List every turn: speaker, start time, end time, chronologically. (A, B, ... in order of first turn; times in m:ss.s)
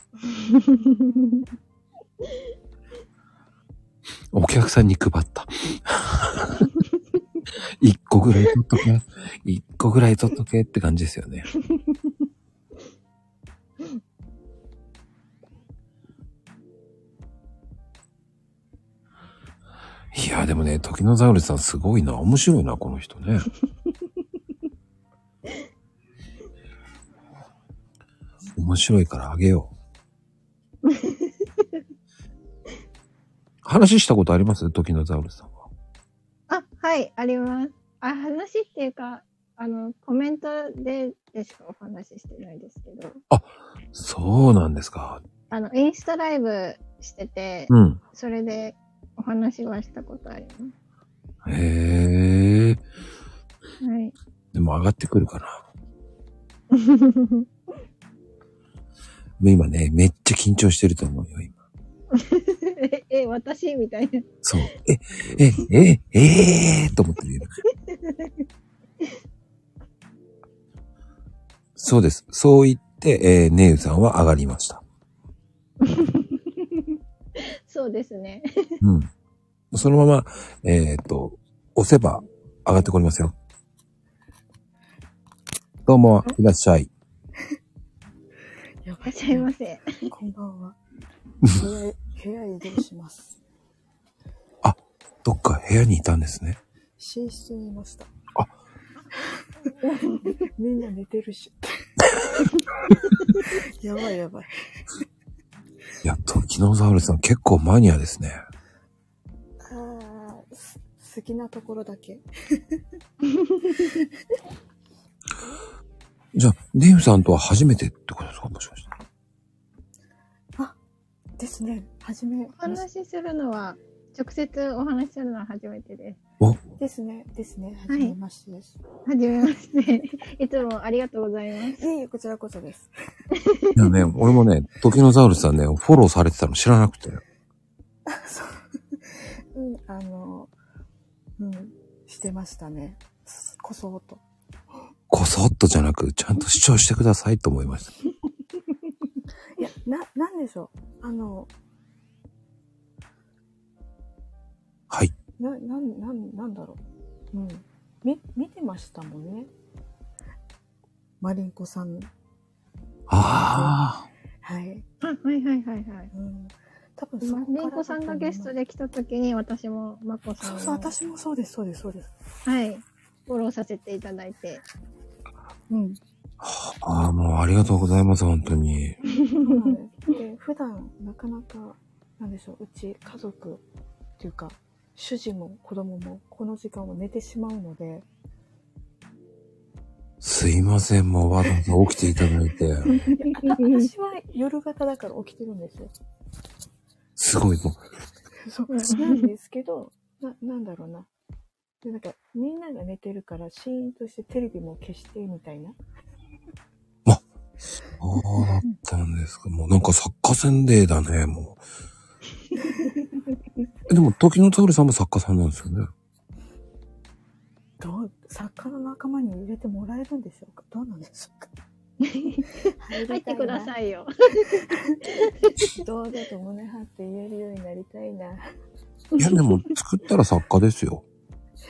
0:00.3-0:01.4 A
0:04.3-0:06.7 B
0:07.8-0:11.5 B
0:20.1-0:23.5 B
0:28.6-0:29.7 B
0:30.9-0:31.8 A
0:33.6-0:35.7 B
0:36.5-0:43.2 A
0:43.3-0:45.2 B
0:45.5-0:50.7 A
0:47.7-0:48.0 B
0:51.4-0:52.8 B
0:53.8-0:54.2 A
0:54.5-0:55.6 B
0:56.7-0:57.5 A
0:59.4-1:01.6 B
1:02.2-1:04.3 A
1:04.4-1:07.5 B
1:07.9-1:08.3 A
1:11.8-1:14.8 B
1:15.9-1:16.8 A
1:17.4-1:18.8 A
1:18.8-1:19.1 B
1:19.7-1:23.4 B
1:25.9-1:26.9 B
1:28.8-1:29.5 C
1:29.0-1:29.9 A
1:30.1-1:30.8 C
1:31.5-1:33.4 C
1:34.6-1:36.6 B
1:37.0-1:38.1 C
1:39.2-1:39.4 C
1:39.8-1:40.4 A
1:40.2-1:41.8 C
1:43.4-1:44.5 C
1:46.0-1:48.4 B
1:49.6-1:52.8 C
1:53.3-1:54.0 A
1:56.3-1:58.9 B
2:01.4-2:02.8 C
2:02.6-2:06.2 A
2:06.8-2:08.8 C
2:07.9-2:08.2 A
2:09.1-2:11.8 A
2:11.8-2:12.9 C
2:13.4-2:13.7 A
2:13.8-2:17.2 B
2:18.1-2:20.5 C
2:21.4-2:24.2 C
2:25.1-2:27.9 B
2:29.6-2:31.5 C
2:35.4-2:36.8 C
2:37.3-2:39.5 C
2:41.2-2:42.1 C
2:43.1-2:44.1 B
2:43.4-2:43.8 C
2:44.4-2:44.8 C
2:45.0-2:46.1 A
2:46.1-2:48.5 C
2:47.2-2:50.9 A
2:50.4-2:52.1 C
2:52.5-2:54.6 A
2:55.7-2:56.0 C
2:56.4-2:59.0 B
2:59.2-2:59.6 A
2:59.3-3:03.6 C
3:04.2-3:08.1 C
3:10.2-3:12.9 B
3:13.1-3:13.9 A
3:13.1-3:15.9 C
3:17.2-3:17.8 B
3:18.4-3:21.1 C
3:18.7-3:19.3 A
3:21.8-3:25.8 C
3:28.0-3:31.6 B
3:33.9-3:35.9 B
3:37.8-3:41.5 C
3:42.0-3:45.7 A
3:42.8-3:43.7 C
3:45.6-3:48.5 C
3:49.2-3:49.6 A
3:49.2-3:51.0 B